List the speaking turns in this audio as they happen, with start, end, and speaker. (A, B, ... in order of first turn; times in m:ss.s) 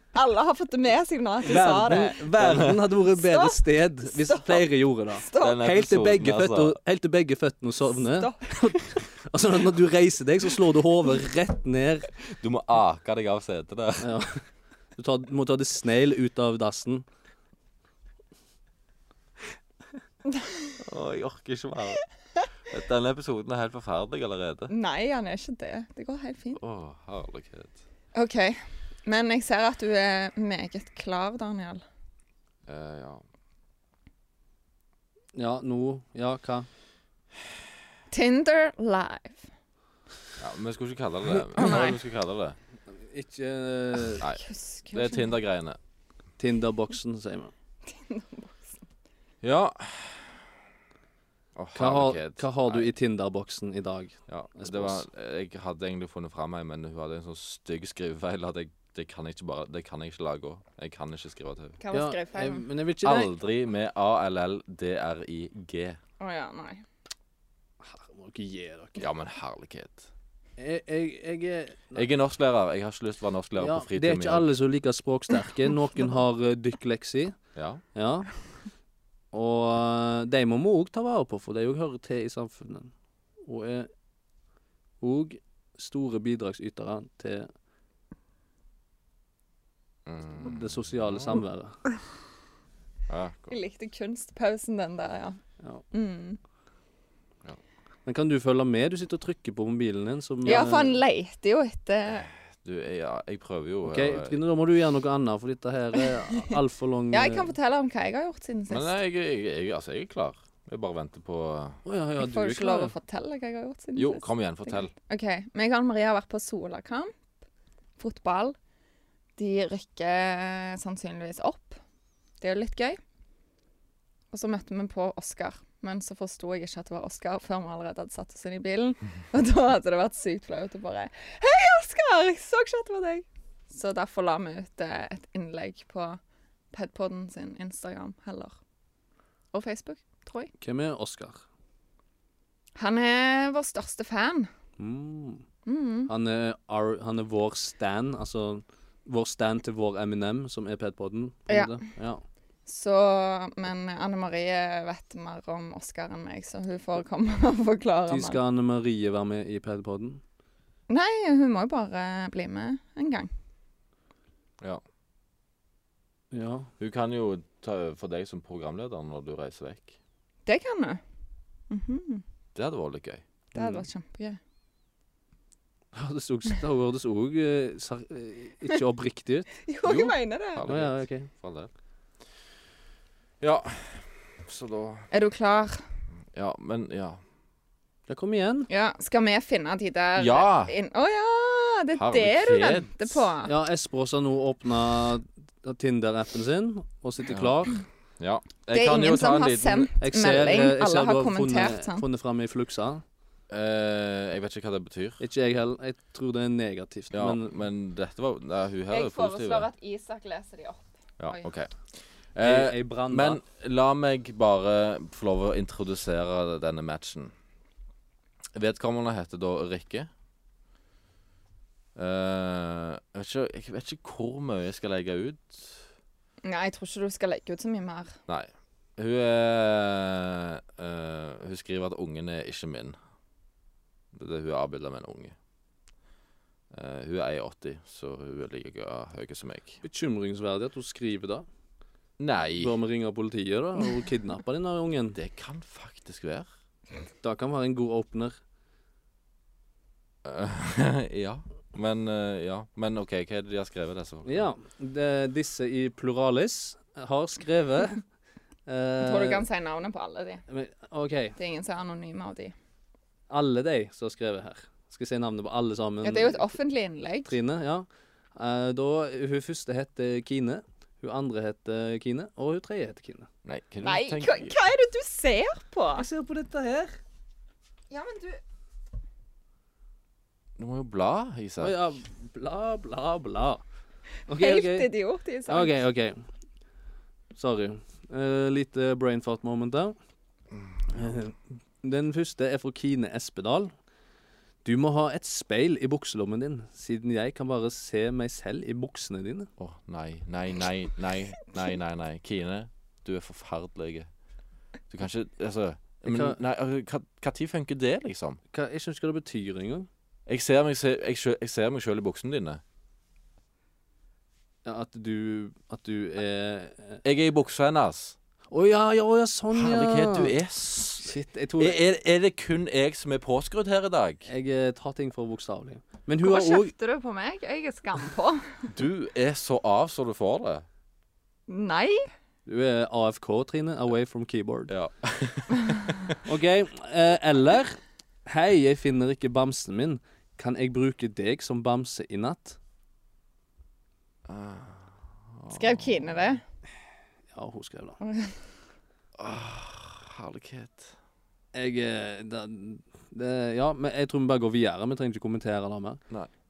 0:00.1-0:02.2 A
0:01.4-0:12.1 B
0:02.4-0:02.9 C
0:03.1-0:05.6 A
0:05.4-0:06.8 C
0:08.2-0:08.8 A
0:12.3-0:14.1 C
0:14.0-0:14.4 B
0:15.0-0:17.0 B
0:20.8-0:22.0 C
0:22.7-0:24.7 C
0:24.7-0:26.6 A
0:26.6-0:27.8 C
0:28.2-0:31.8 A
0:32.7-0:33.2 C
0:35.4-0:36.7 B
0:38.1-0:39.5 A
0:40.4-0:42.6 C
0:41.6-0:42.0 A
0:43.0-0:44.2 B
0:44.0-0:45.4 A
0:44.2-0:45.8 C
0:46.4-0:47.5 B
0:47.9-0:48.8 A
0:49.4-0:50.4 C
0:51.6-0:52.9 C
0:51.8-0:55.1 B
0:54.3-1:01.8 C
1:01.8-1:02.7 A
1:01.9-1:03.3 B
1:03.0-1:06.0 C
1:06.2-1:06.8 A
1:07.8-1:09.1 B
1:09.0-1:10.1 C
1:10.6-1:12.1 B
1:12.0-1:14.5 C
1:13.6-1:17.4 B
1:17.6-1:17.8 C
1:18.0-1:18.3 B
1:19.3-1:22.9 B
1:23.4-1:23.9 B
1:25.0-1:27.5 B
1:30.1-1:31.4 C
1:30.4-1:31.8 B
1:33.1-1:33.6 C
1:33.5-1:35.4 A
1:35.9-1:36.4 A
1:38.1-1:41.0 B
1:40.4-1:42.3 A
1:42.3-1:44.4 C
1:43.9-1:47.5 B
1:47.1-1:48.9 A
1:48.7-1:51.8 C
1:51.8-1:52.9 B
1:52.2-1:57.1 A
1:54.0-1:54.9 C
1:58.0-1:58.6 A
1:59.4-2:01.8 A
2:02.4-2:03.0 A
2:04.3-2:16.2 A
2:16.7-2:18.6 A
2:19.5-2:20.5 A
2:20.6-2:21.4 B
2:22.8-2:24.5 A
2:24.8-2:25.4 B
2:25.7-2:26.1 A
2:26.1-2:32.2 B
2:31.5-2:31.8 A
2:32.7-2:38.4 A
2:38.1-2:40.2 B
2:40.9-2:43.3 A
2:46.3-2:46.7 B
2:46.8-2:50.0 C
2:50.5-2:51.0 A
2:51.7-2:52.2 A
2:52.6-2:53.2 C
2:53.5-2:54.4 A
2:53.6-2:53.8 B
2:55.9-2:59.6 B
2:59.6-3:00.6 A
2:59.8-3:01.7 C
3:00.7-3:01.3 B
3:03.4-3:05.1 C
3:05.1-3:05.8 A
3:06.3-3:07.2 C
3:08.1-3:08.7 B
3:08.7-3:13.5 A
3:10.2-3:10.7 C
3:12.0-3:13.3 C
3:13.4-3:17.8 B
3:17.3-3:17.7 C
3:18.2-3:19.9 C
3:18.7-3:22.0 A
3:20.0-3:23.0 B
3:23.5-3:25.2 C
3:25.2-3:27.5 B
3:27.1-3:29.7 C
3:28.9-3:31.5 A
3:31.2-3:37.3 C
3:32.4-3:33.4 B
3:38.6-3:40.1 C
3:42.0-3:45.9 C
3:46.4-3:48.2 A
3:48.3-3:53.0 C
3:54.1-3:55.4 C
3:56.7-3:59.8 C
3:59.8-4:01.5 B
4:02.2-4:02.8 C
4:02.6-4:05.2 B
4:05.1-4:06.5 C
4:07.2-4:08.4 B
4:10.2-4:14.5 C
4:14.3-4:18.0 B
4:18.7-4:19.4 B
4:19.0-4:20.4 A
4:20.5-4:21.4 B
4:21.4-4:22.5 A
4:23.3-4:26.5 B
4:26.0-4:27.4 A
4:27.3-4:33.3 B
4:33.4-4:34.6 C
4:33.8-4:36.0 A
4:36.0-4:37.0 B
4:37.9-4:38.4 A
4:40.6-4:41.8 C
4:41.6-4:43.6 B
4:44.3-4:44.9 B
4:44.3-4:45.8 A
4:45.5-4:46.2 B
4:47.4-4:50.0 B
4:50.5-4:50.8 C
4:50.9-4:53.7 B
4:54.6-4:59.5 B
4:59.6-5:04.1 C
5:04.9-5:08.4 C
5:06.0-5:06.4 B
5:08.5-5:09.9 B
5:10.3-5:12.6 C
5:14.6-5:17.0 B
5:17.0-5:18.2 C
5:18.5-5:20.4 B
5:19.5-5:24.3 C
5:21.0-5:21.8 B
5:24.3-5:26.7 B
5:26.2-5:28.7 A
5:28.7-5:30.6 C
5:31.5-5:32.1 A
5:32.5-5:34.7 B
5:34.7-5:36.2 C
5:36.2-5:42.6 B
5:44.3-5:46.3 C
5:45.5-5:46.4 A
5:47.3-5:48.0 B
5:48.0-5:48.4 A
5:49.2-5:51.0 C
5:51.5-5:56.0 B